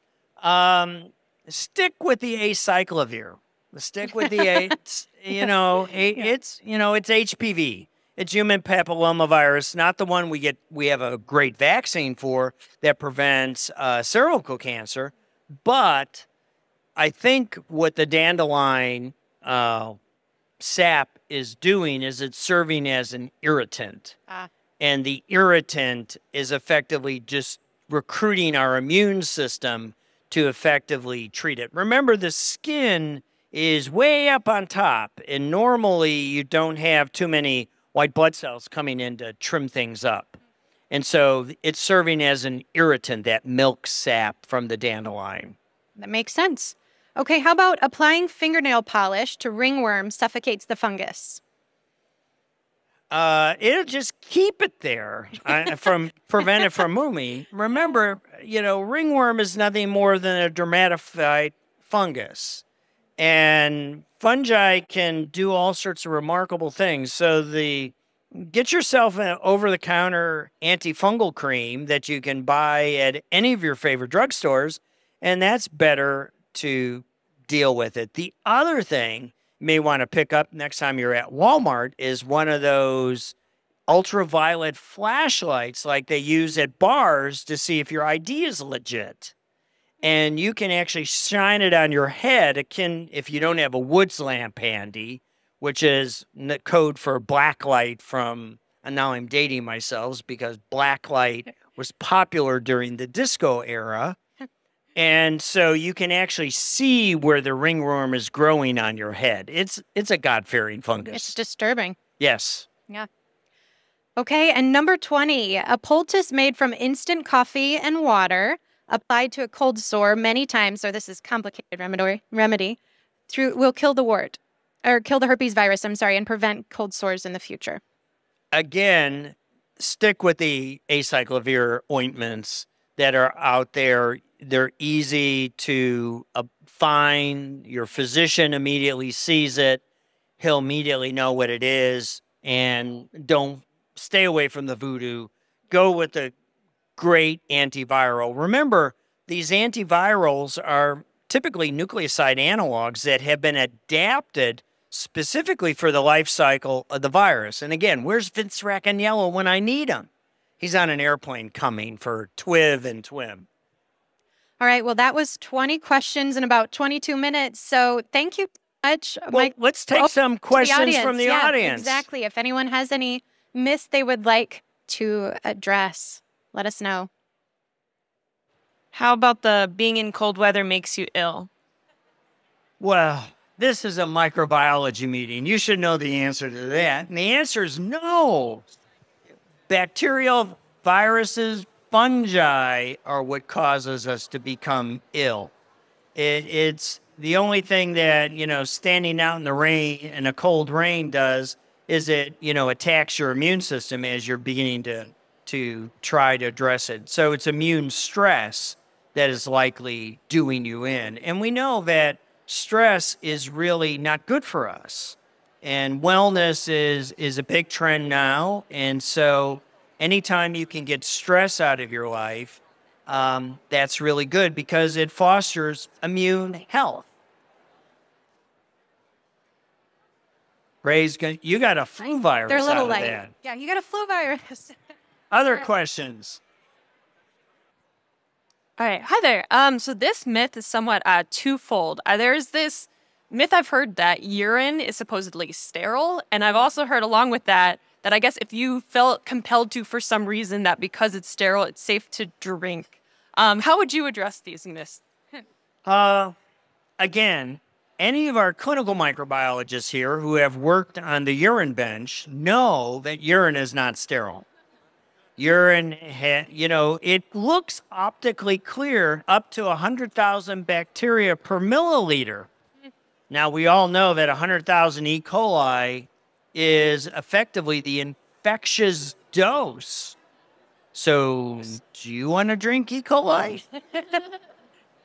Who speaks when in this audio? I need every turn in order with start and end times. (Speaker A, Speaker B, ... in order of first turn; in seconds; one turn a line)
Speaker A: 0.4-15.1
Speaker A: 15.6-16.2
Speaker A: 16.9-20.0
Speaker A: 20.6-24.2
Speaker A: 24.8-40.4
Speaker A: 40.9-45.5
Speaker B: 46.0-51.4
Speaker A: 53.1-62.6
Speaker A: 63.2-83.3
Speaker A: 83.9-89.3
Speaker A: 90.0-104.2
Speaker A: 104.9-111.3
Speaker B: 111.1-112.0
Speaker A: 112.2-112.7
Speaker B: 114.2-127.8
Speaker A: 128.5-139.8
Speaker A: 140.4-146.3
Speaker A: 146.9-160.1
Speaker A: 160.6-163.5
Speaker B: 164.6-177.1
Speaker A: 169.3-172.0
Speaker C: 178.9-181.5
Speaker A: 182.8-188.7
Speaker A: 189.7-195.5
Speaker A: 196.1-227.1
Speaker A: 230.8-233.3
Speaker B: 232.5-234.7
Speaker A: 235.3-236.4
Speaker C: 238.8-255.0
Speaker A: 255.8-256.4
Speaker A: 257.0-264.4
Speaker A: 265.4-272.5
Speaker A: 273.3-280.1
Speaker A: 280.9-283.6